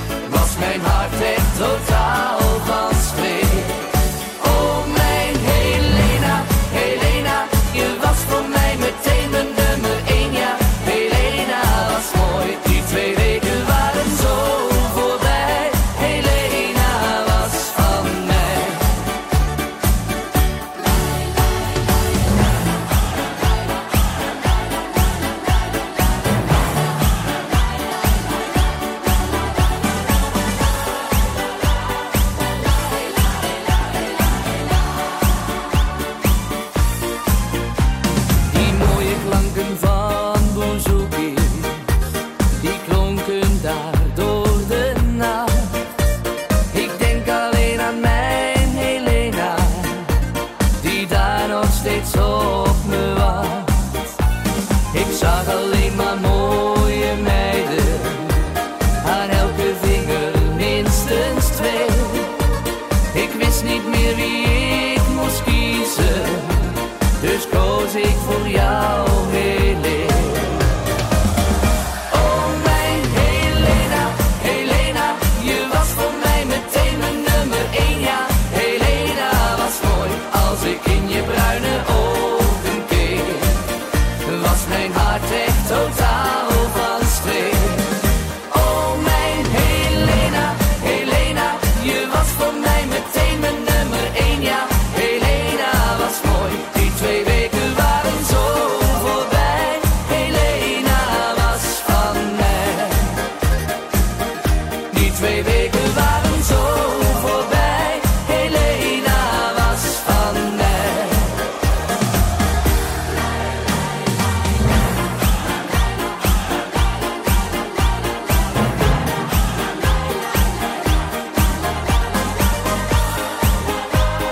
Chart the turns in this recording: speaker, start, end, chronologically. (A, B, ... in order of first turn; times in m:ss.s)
0:00.2-0:19.0 A
0:38.5-0:41.8 A
0:42.6-0:45.8 A
0:46.7-0:50.1 A
0:50.8-0:54.0 A
0:54.9-0:58.5 A
0:59.0-1:02.3 A
1:03.1-1:10.8 A
1:12.1-1:23.6 A
1:24.2-1:28.0 A
1:28.5-1:43.2 A
1:44.9-1:51.4 A